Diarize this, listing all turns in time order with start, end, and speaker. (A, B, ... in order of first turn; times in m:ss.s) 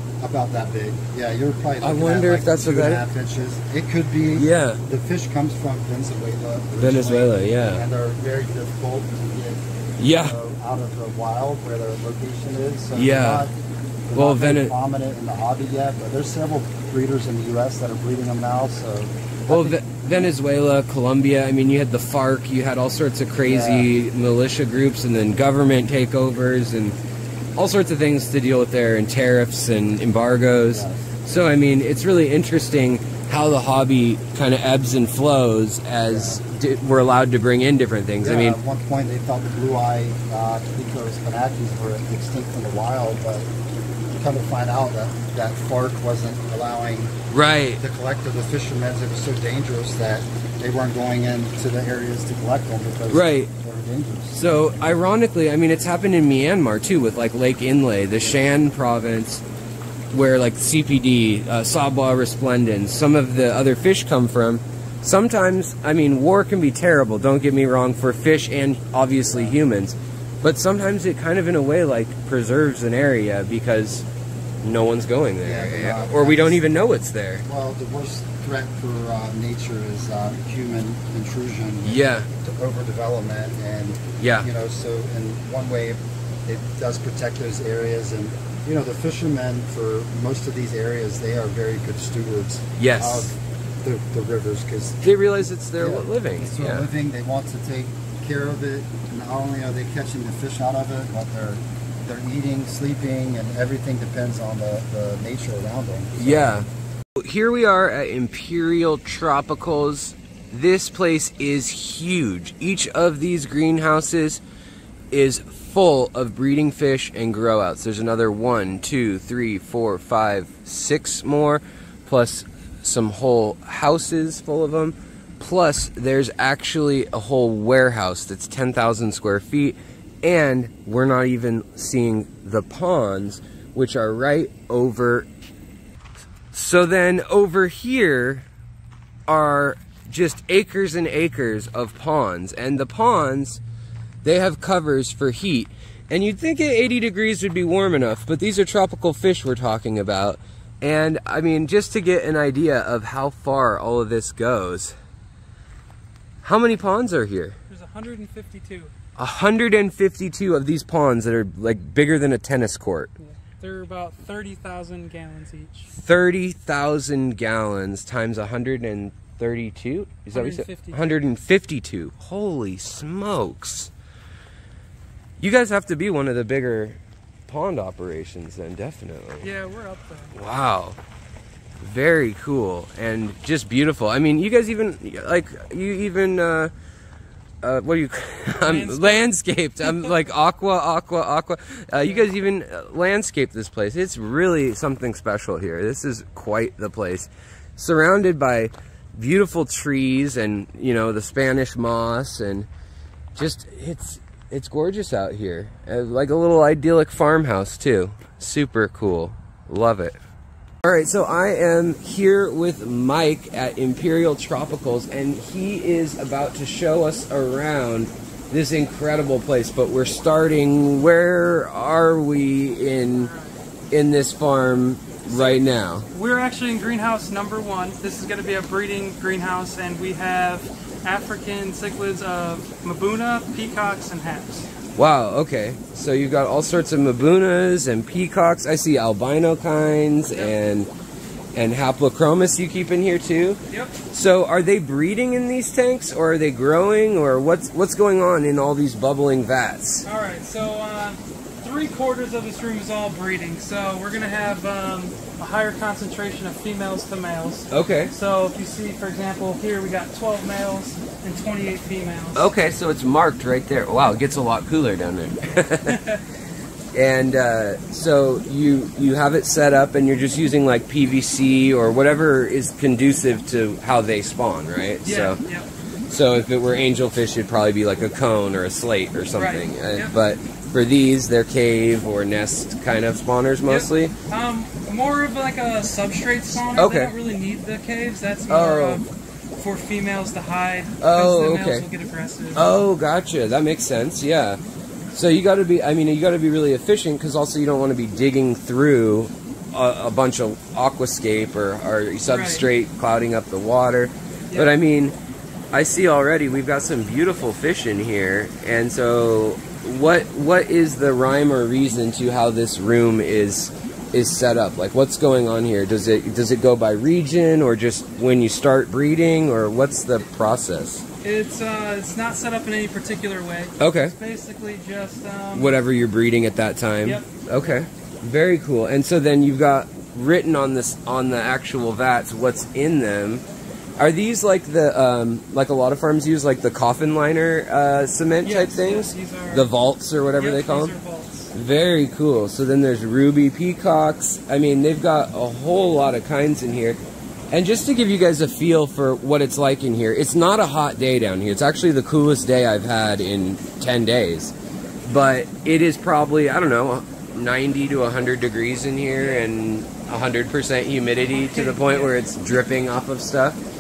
0:00.2-0:09.6 A
0:01.8-0:03.0 B
0:04.4-0:04.8 B
0:06.8-0:07.8 B
0:10.0-0:10.4 B
0:10.1-0:13.5 A
0:13.0-0:13.5 B
0:14.1-0:19.8 A
0:14.2-0:14.7 B
0:19.5-0:27.0 B
0:23.4-0:23.9 A
0:27.6-0:38.6 B
0:30.7-0:31.1 A
0:36.1-0:36.4 A
0:38.2-0:43.5 A
0:44.2-0:47.2 A
0:47.3-0:47.8 B
0:47.8-0:54.8 A
0:53.1-0:53.5 B
0:54.3-0:59.4 B
1:00.1-1:14.1 B
1:09.3-1:09.6 A
1:14.6-1:17.4 B
1:15.4-1:16.7 A
1:17.4-1:35.1 A
1:21.8-1:22.3 B
1:24.2-1:24.5 B
1:32.8-1:33.3 B
1:35.0-1:36.9 B
1:35.8-1:46.6 A
1:46.2-1:54.4 B
1:55.1-2:15.3 B
2:16.5-2:18.5 B
2:19.3-2:23.6 B
2:24.2-2:35.0 B
2:36.4-2:37.6 B
2:37.7-2:38.9 C
2:39.2-2:43.1 B
2:43.2-2:45.9 C
2:46.0-2:53.9 B
2:50.3-2:51.0 C
2:55.4-2:59.5 B
2:59.4-3:00.3 C
3:00.3-3:01.0 B
3:01.8-3:06.7 B
3:07.6-3:22.7 B
3:08.6-3:09.3 C
3:09.8-3:10.1 C
3:23.4-3:30.2 B
3:30.8-3:43.3 B
3:43.1-3:43.6 C
3:43.9-3:46.1 B
3:45.3-3:54.7 C
3:55.0-4:00.9 B
4:01.6-4:03.6 B
4:03.7-4:04.0 C
4:04.1-4:10.0 B
4:10.1-4:22.5 C
4:17.7-4:18.1 B
4:22.4-4:26.0 B
4:25.8-4:26.2 C
4:26.9-4:35.4 B
4:35.0-4:35.7 C
4:36.1-4:44.1 B
4:39.4-4:40.1 C
4:43.6-4:52.8 C
4:46.7-4:47.1 B
4:48.5-4:49.0 B
4:51.0-4:51.9 B
4:52.6-4:54.6 B
4:55.1-5:05.2 B
5:02.3-5:02.6 C
5:05.7-5:21.0 B
5:21.2-5:25.8 C
5:23.8-5:24.2 B
5:25.5-5:33.4 B
5:27.0-5:27.7 C
5:34.0-5:40.9 B
5:38.4-5:39.7 C
5:40.4-5:41.5 C
5:41.5-5:47.0 B
5:47.5-5:54.5 B
5:55.1-6:03.6 B
5:59.2-5:59.5 C
6:01.3-6:02.2 C